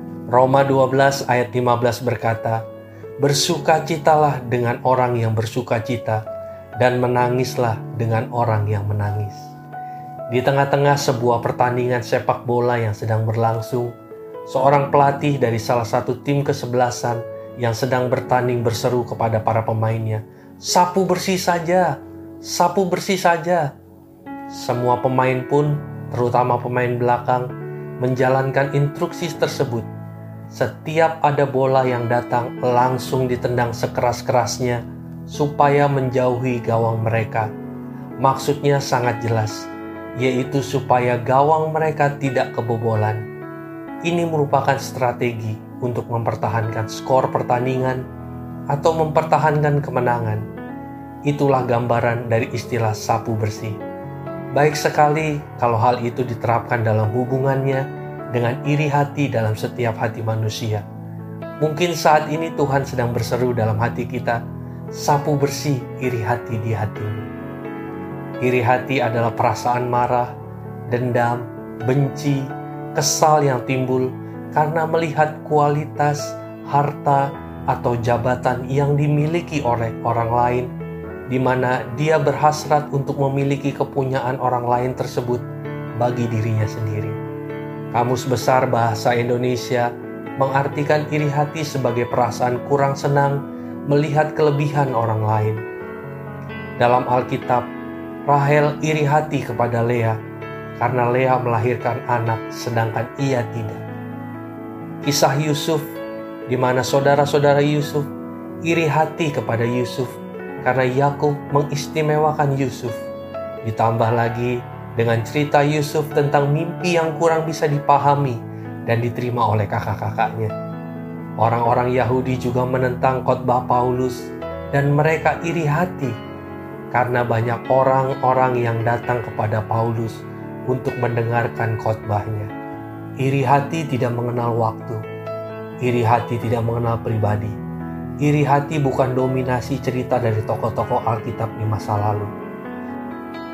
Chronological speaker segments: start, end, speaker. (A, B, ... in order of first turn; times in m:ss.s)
0:00.3-0:02.6 A
0:03.2-0:06.2 A
0:06.8-0:09.5 A
0:10.3-0:13.9 A
0:14.5-0:23.7 A
0:24.5-0:27.5 A
0:28.0-0:29.9 A
0:30.5-0:37.5 A
0:38.2-0:39.7 A
0:40.2-0:43.2 A
0:44.1-0:48.0 A
0:48.7-0:50.4 A
0:51.3-0:53.8 A
0:54.5-1:00.9 A
1:01.6-1:04.4 A
1:04.9-1:07.3 A
1:08.4-1:10.3 A
1:10.9-1:20.7 A
1:21.3-1:25.4 A
1:26.0-1:27.2 A
1:27.9-1:35.6 A
1:36.8-1:37.7 A
1:38.3-1:40.2 A
1:40.8-1:43.8 A
1:45.0-1:45.9 A
1:46.5-1:48.1 A
1:48.6-1:53.0 A
1:53.6-2:00.5 A
2:01.4-2:06.2 A
2:06.9-2:12.5 A
2:13.2-2:15.0 A
2:15.8-2:17.6 A
2:18.2-2:22.3 A